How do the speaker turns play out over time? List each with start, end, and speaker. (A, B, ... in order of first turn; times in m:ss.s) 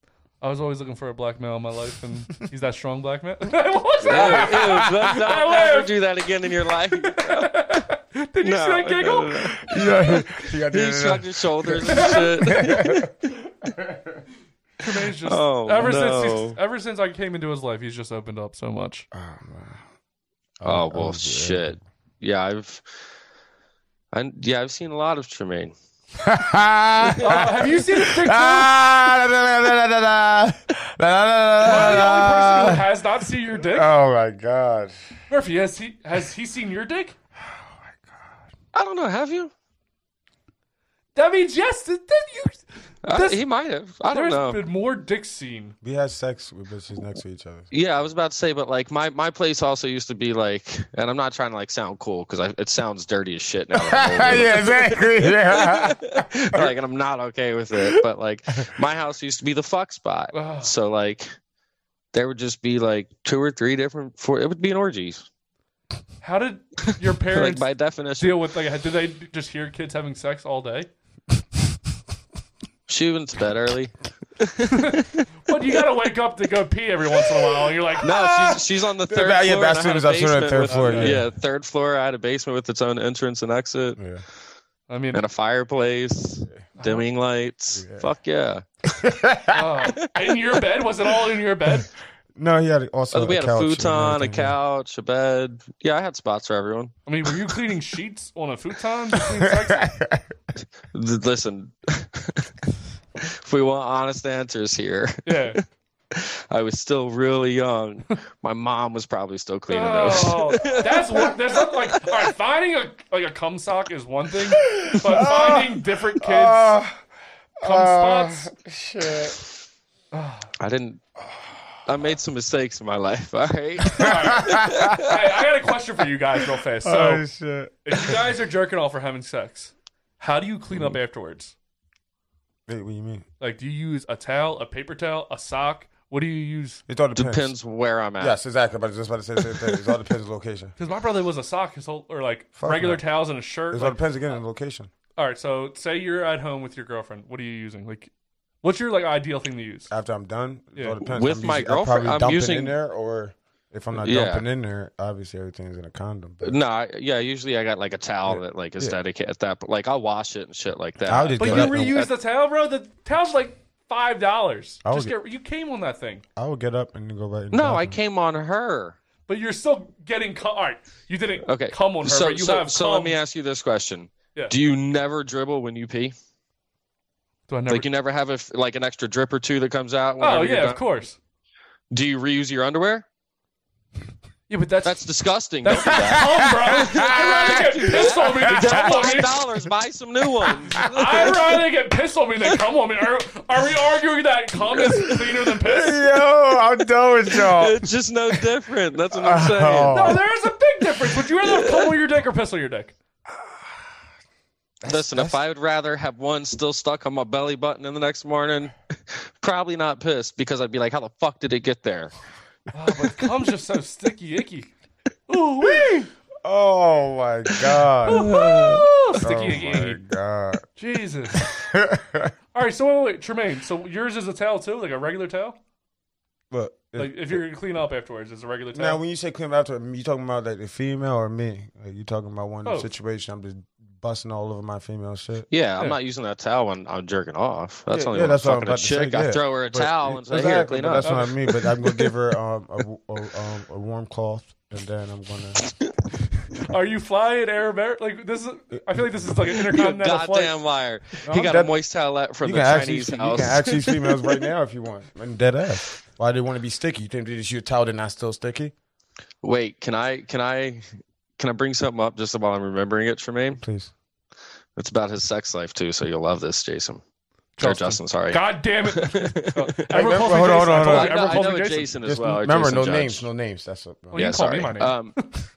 0:00.4-0:06.0 A
0:04.0-0:07.8 B
0:04.1-0:05.1 C
0:07.0-0:09.9 A
0:08.4-0:09.7 B
0:09.7-0:13.1 C
0:10.7-0:13.1 B
0:12.0-0:12.3 A
0:13.6-0:14.2 C
0:14.8-0:19.0 A
0:15.2-0:16.6 B
0:19.1-0:19.8 C
0:20.6-0:21.8 C
0:20.6-0:22.8 B
0:24.1-0:25.7 B
0:26.2-0:32.9 C
0:27.2-0:28.9 A
0:31.6-0:33.9 A
0:33.5-0:34.9 C
0:35.3-0:37.2 A
0:37.4-0:38.4 C
0:38.7-0:39.5 B
0:41.1-0:43.4 A
0:43.0-0:44.6 B
0:44.1-0:45.7 A
0:45.8-0:47.7 C
0:47.7-1:01.3 B
0:53.7-0:56.7 C
1:00.3-1:00.7 A
1:02.1-1:05.2 B
1:06.2-1:10.9 A
1:06.9-1:08.4 B
1:12.9-1:15.2 B
1:14.8-1:18.1 A
1:18.0-1:21.2 C
1:18.0-1:24.0 B
1:20.6-1:21.2 A
1:24.0-1:24.2 C
1:24.9-1:25.2 A
1:25.1-1:28.6 B
1:26.8-1:27.0 A
1:27.7-1:28.1 C
1:28.9-1:29.8 C
1:29.5-1:31.9 A
1:32.3-1:34.6 C
1:33.1-1:36.9 B
1:37.0-1:39.9 A
1:39.3-1:40.3 C
1:40.9-1:42.5 B
1:43.2-1:45.6 B
1:45.2-1:45.6 A
1:46.1-1:51.3 B
1:49.7-1:56.8 A
1:54.7-1:57.0 C
1:57.6-1:59.4 C
1:57.6-1:58.5 A
2:00.1-2:00.5 A
2:00.6-2:01.0 B
2:01.8-2:05.0 B
2:04.0-2:04.9 C
2:04.0-2:07.2 A
2:06.8-2:08.1 C
2:07.8-2:11.5 A
2:10.7-2:11.0 C
2:12.7-2:13.2 C
2:13.4-2:16.8 A
2:16.9-2:17.5 C
2:17.2-2:18.4 B
2:18.2-2:20.7 C
2:20.8-2:24.0 A
2:22.6-2:23.0 C
2:23.7-2:24.9 C
2:25.2-2:28.1 A
2:28.6-2:29.9 A
2:29.9-2:36.6 C
2:31.0-2:32.7 B
2:34.0-2:34.4 B
2:36.4-2:42.1 B
2:38.3-2:39.0 C
2:41.0-2:42.0 C
2:41.4-2:46.2 A
2:44.8-2:45.1 C
2:46.4-2:48.0 C
2:47.5-2:49.0 B
2:49.3-2:53.2 A
2:51.4-2:56.1 B
2:57.5-2:57.9 A
2:57.7-3:00.8 B
3:00.2-3:01.2 A
3:01.9-3:03.0 B
3:04.5-3:05.0 A
3:04.8-3:11.4 B
3:05.6-3:09.4 A
3:06.0-3:09.2 C
3:10.7-3:16.0 A
3:14.7-3:15.2 B
3:15.6-3:17.8 C
3:17.3-3:20.2 B
3:19.1-3:20.2 C
3:19.9-3:22.9 A
3:21.4-3:21.9 B
3:23.3-3:23.9 C
3:24.8-3:25.4 C
3:24.9-3:32.1 B
3:32.7-3:34.7 A
3:35.3-3:36.1 A
3:36.4-3:38.5 C
3:38.0-3:40.0 A
3:38.1-3:38.9 B
3:39.1-3:40.6 C
3:40.8-3:41.5 A
3:41.4-3:42.3 C
3:42.5-3:45.6 A
3:46.5-3:47.4 C
3:47.0-3:49.0 A
3:48.7-3:55.5 C
3:52.6-3:52.9 A
3:55.5-4:01.2 B
3:57.9-4:05.6 C
4:01.0-4:01.4 A
4:06.7-4:10.6 A
4:09.7-4:14.4 B
4:11.3-4:11.7 C
4:12.4-4:18.7 C
4:19.4-4:20.9 B
4:21.4-4:23.6 B
4:23.6-4:23.9 C
4:24.8-4:27.0 B
4:27.6-4:31.9 A
4:27.6-4:33.3 B
4:29.9-4:31.5 C
4:32.0-4:34.3 C
4:34.1-4:35.3 A
4:34.1-4:35.1 B